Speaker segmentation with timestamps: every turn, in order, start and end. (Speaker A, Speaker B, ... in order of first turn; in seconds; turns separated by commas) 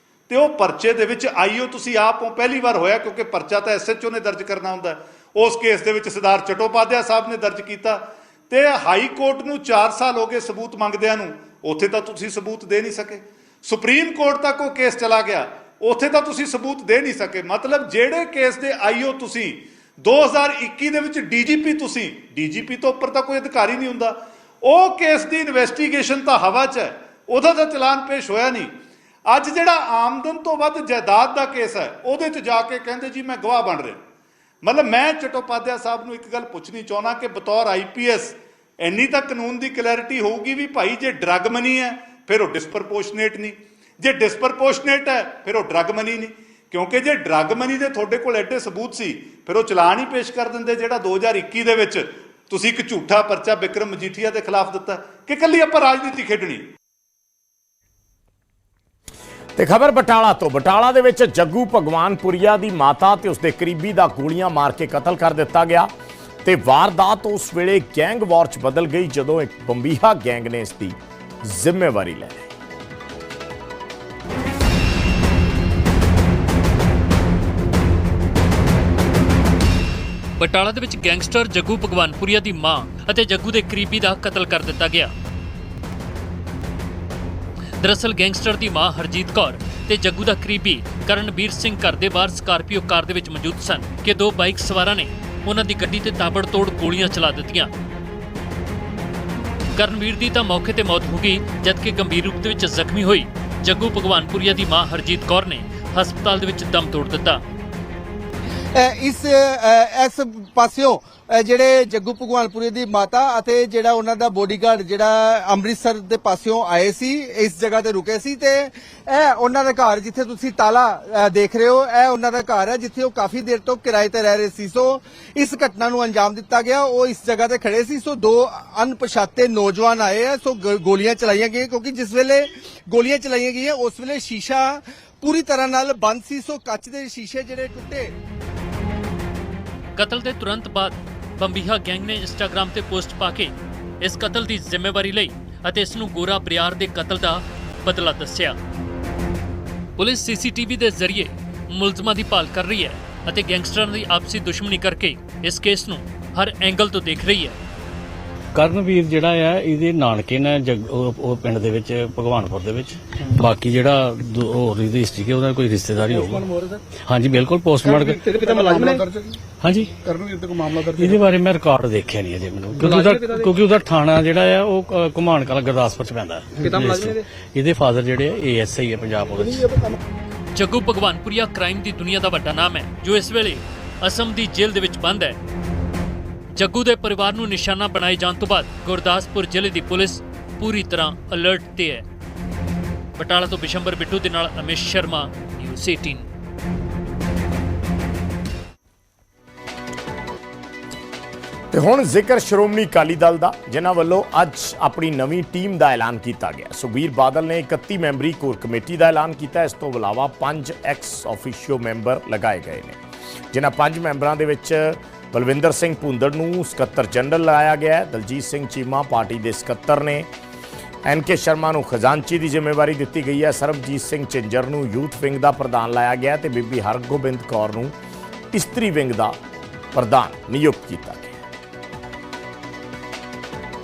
Speaker A: 0.3-28.7, Speaker A: 29.2-34.0, Speaker A: 34.6-56.6, Speaker B: 59.5-65.9, Speaker B: 66.4-72.5, Speaker C: 80.4-85.1, Speaker C: 87.8-97.7, Speaker C: 99.7-107.4, Speaker D: 108.7-138.1, Speaker C: 139.9-148.6, Speaker C: 150.0-157.6, Speaker E: 158.5-169.0, Speaker F: 166.1-166.8, Speaker F: 167.8-169.4, Speaker E: 169.6-169.9, Speaker F: 169.9-171.2, Speaker E: 171.0-179.7, Speaker F: 172.7-173.5, Speaker F: 176.6-177.2, Speaker F: 179.4-179.9, Speaker C: 180.5-185.4, Speaker C: 186.5-192.0, Speaker C: 193.2-196.3, Speaker B: 201.7-213.0, Speaker B: 213.5-220.3, Speaker B: 221.0-227.9, Speaker B: 228.5-229.4, Speaker B: 229.9-231.4